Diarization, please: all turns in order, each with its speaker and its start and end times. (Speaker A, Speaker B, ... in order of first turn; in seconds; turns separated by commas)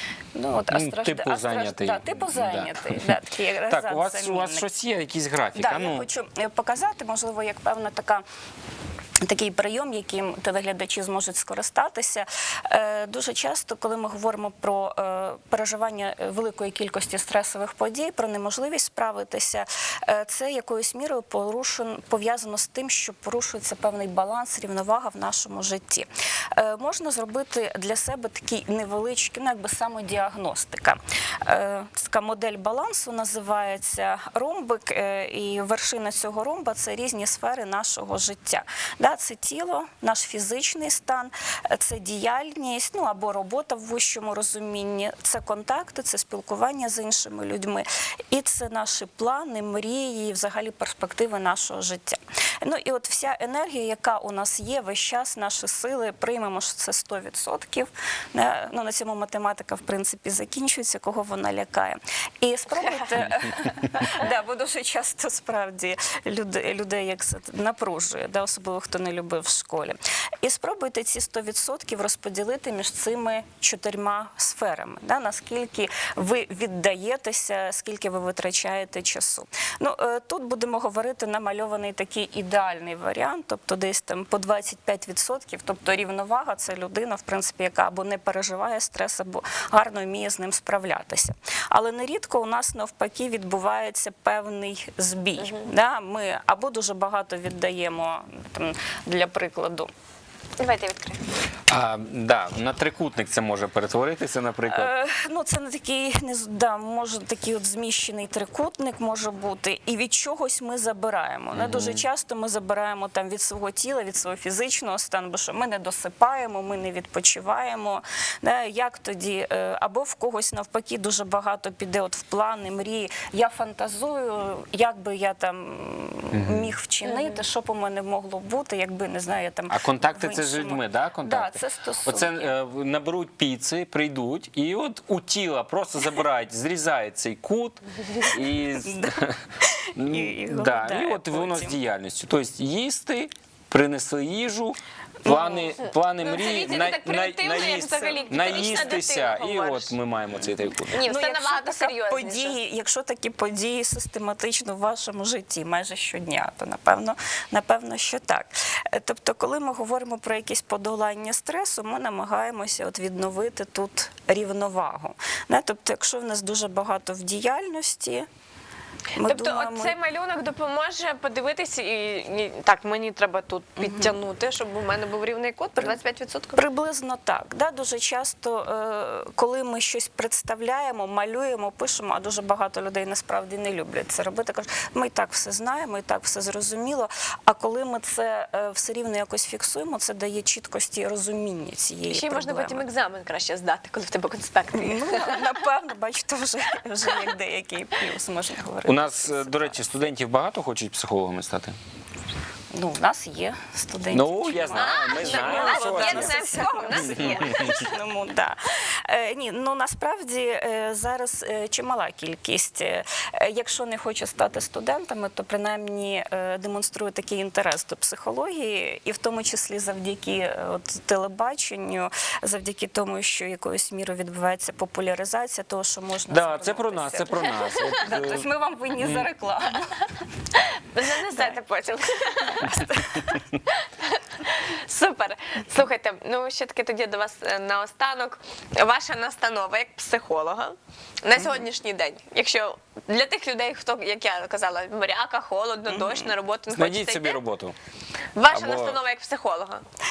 Speaker A: 0.3-4.7, Speaker B: 0.7-6.1, Speaker A: 5.5-8.2, Speaker A: 9.2-99.9, Speaker C: 100.6-101.2, Speaker B: 101.7-104.9, Speaker A: 104.7-132.5, Speaker B: 111.5-112.0, Speaker B: 126.3-126.7, Speaker B: 129.7-139.4, Speaker A: 138.8-141.8, Speaker B: 140.0-150.9, Speaker A: 145.2-145.8, Speaker C: 146.2-149.9, Speaker A: 147.9-148.8, Speaker C: 150.9-152.6, Speaker A: 151.1-168.3, Speaker A: 169.2-169.9, Speaker C: 169.2-176.6, Speaker A: 173.8-174.2, Speaker A: 176.6-192.9, Speaker C: 192.1-195.5, Speaker A: 194.8-200.1, Speaker B: 198.8-201.8, Speaker A: 202.7-230.2, Speaker B: 204.1-207.9, Speaker C: 204.7-207.8, Speaker B: 226.3-228.5, Speaker B: 229.0-229.3, Speaker C: 230.6-232.9, Speaker A: 231.3-231.5, Speaker A: 232.6-233.4, Speaker C: 233.7-247.4, Speaker A: 245.9-246.3, Speaker B: 246.7-247.8, Speaker C: 248.3-249.8, Speaker B: 248.5-249.0